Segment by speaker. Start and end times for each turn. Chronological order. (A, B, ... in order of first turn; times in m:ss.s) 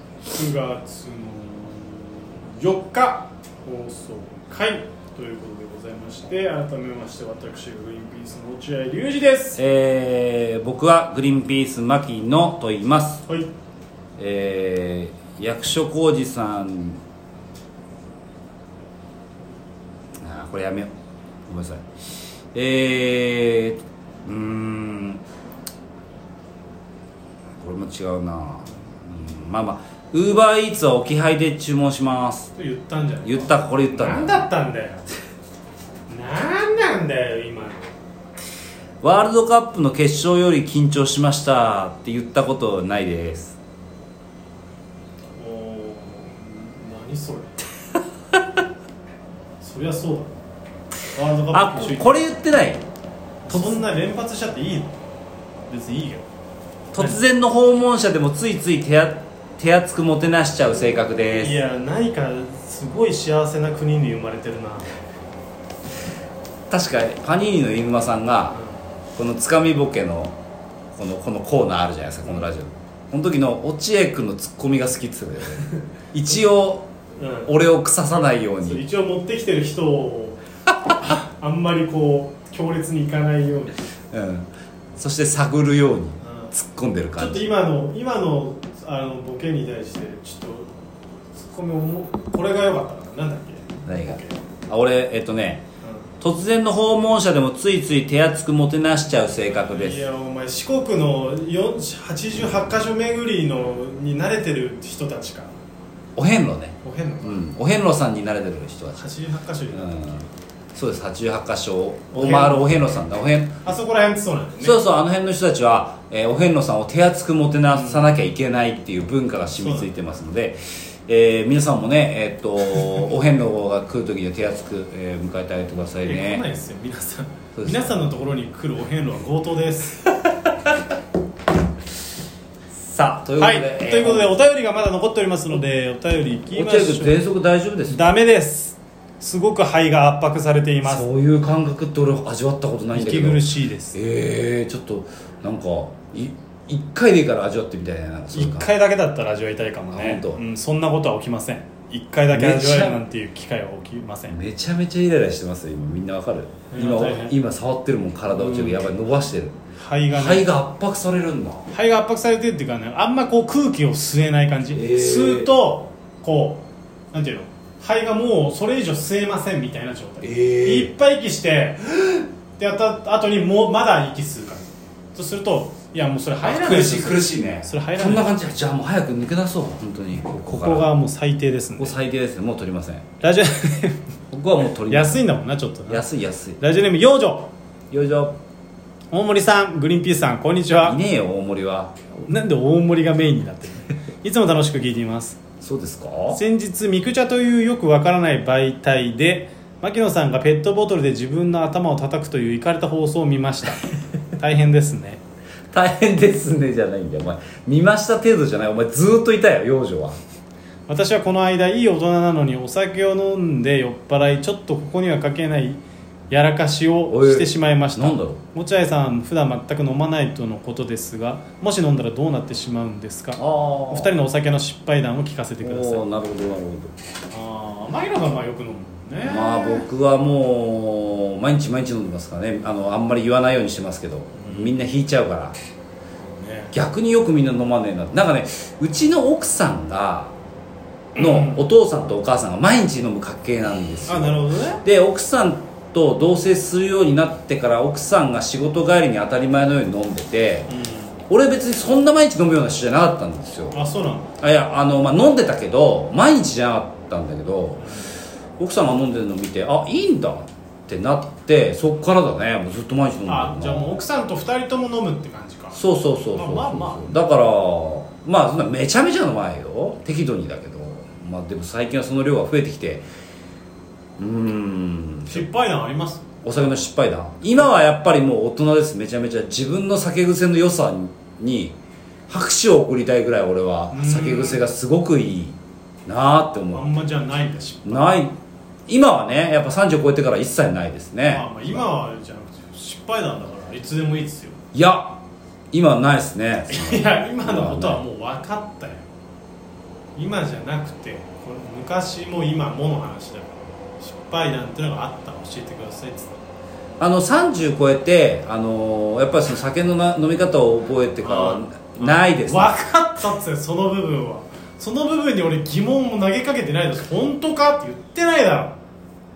0:00.2-0:09.6 A
0:09.6-0:13.2 B
0:13.3-0:13.5 A
0:14.2-0:17.0 B
0:20.2-0:20.9 B
0:21.5-0:21.8 B
0:22.5-0:25.2 B
0:27.6-0:32.5 B
0:32.6-0:35.0 A
0:33.2-0:34.5 B
0:36.1-0:37.9 A
0:39.0-0:43.6 B
0:45.4-0:47.6 A
0:49.6-0:50.3 A
0:51.1-0:52.3 A
0:51.5-0:52.8 B
0:53.5-0:55.0 A
0:53.5-0:53.8 B
0:55.7-0:56.2 A
0:56.9-1:01.6 B
1:01.4-1:04.9 A
1:06.7-1:08.6 B
1:08.5-1:08.8 A
1:09.2-1:10.4 B
1:10.9-1:16.9 B
1:17.2-1:17.5 A
1:17.4-1:18.8 B
1:18.6-1:20.4 A
1:21.0-1:23.8 A
1:24.1-1:27.5 B
1:26.2-1:26.5 A
1:27.2-1:30.8 A
1:31.4-1:34.4 A
1:33.8-1:35.6 B
1:35.8-1:36.1 A
1:36.2-1:40.0 B
1:39.4-1:45.5 A
1:46.2-1:49.0 B
1:46.8-1:47.4 A
1:48.9-1:50.0 A
1:49.7-1:53.6 B
1:52.1-1:52.7 A
1:53.6-1:54.8 A
1:54.6-2:06.4 B
1:57.7-1:58.1 A
1:59.6-1:59.9 A
2:06.0-2:10.0 A
2:07.6-2:08.0 B
2:12.8-2:14.3 B
2:13.4-2:17.2 A
2:16.5-2:18.1 B
2:17.9-2:21.0 A
2:20.8-2:28.7 B
2:22.9-2:24.0 A
2:28.3-2:34.4 A
2:29.9-2:30.4 B
2:32.3-2:33.0 B
2:34.3-2:39.6 B
2:36.7-2:37.3 A
2:38.3-2:38.8 A
2:39.8-2:40.5 A
2:40.1-2:41.7 B
2:41.7-2:58.3 A
2:44.7-2:45.5 B
2:50.2-2:50.9 B
2:56.4-3:00.9 B
3:00.5-3:01.9 A
3:01.8-3:03.0 B
3:03.2-3:04.0 A
3:04.3-3:05.2 B
3:04.9-3:06.0 A
3:05.9-3:06.6 B
3:06.6-3:07.5 A
3:07.9-3:08.4 B
3:09.1-3:11.0 A
3:10.8-3:11.9 B
3:12.2-3:15.4 A
3:15.6-3:16.4 B
3:16.3-3:25.2 A
3:25.7-3:30.2 B
3:30.9-3:46.0 A
3:37.1-3:38.4 B
3:43.4-3:44.1 B
3:45.6-3:46.9 B
3:47.3-3:49.8 A
3:49.2-3:55.6 B
3:54.3-3:54.8 A
3:56.2-3:56.8 A
3:56.7-4:00.3 B
4:01.2-4:01.6 A
4:01.2-4:10.7 B
4:04.1-4:04.8 A
4:10.7-4:11.2 A
4:11.3-4:13.8 B
4:13.7-4:14.3 A
4:14.4-4:17.9 B
4:17.8-4:18.1 A
4:18.6-4:24.0 B
4:23.3-4:25.8 A
4:25.7-4:33.0 B
4:26.3-4:27.2 A
4:34.2-4:35.5 B
4:35.2-4:36.2 A
4:36.4-4:41.8 B
4:42.3-4:46.9 B
4:43.9-4:44.6 A
4:46.7-4:48.2 A
4:47.9-4:48.4 B
4:48.9-4:51.8 B
4:51.3-4:54.6 A
4:54.7-4:55.2 B
4:55.7-4:58.0 B
4:56.7-4:59.0 A
5:00.2-5:06.4 A
5:07.0-5:12.7 B
5:11.2-5:18.8 A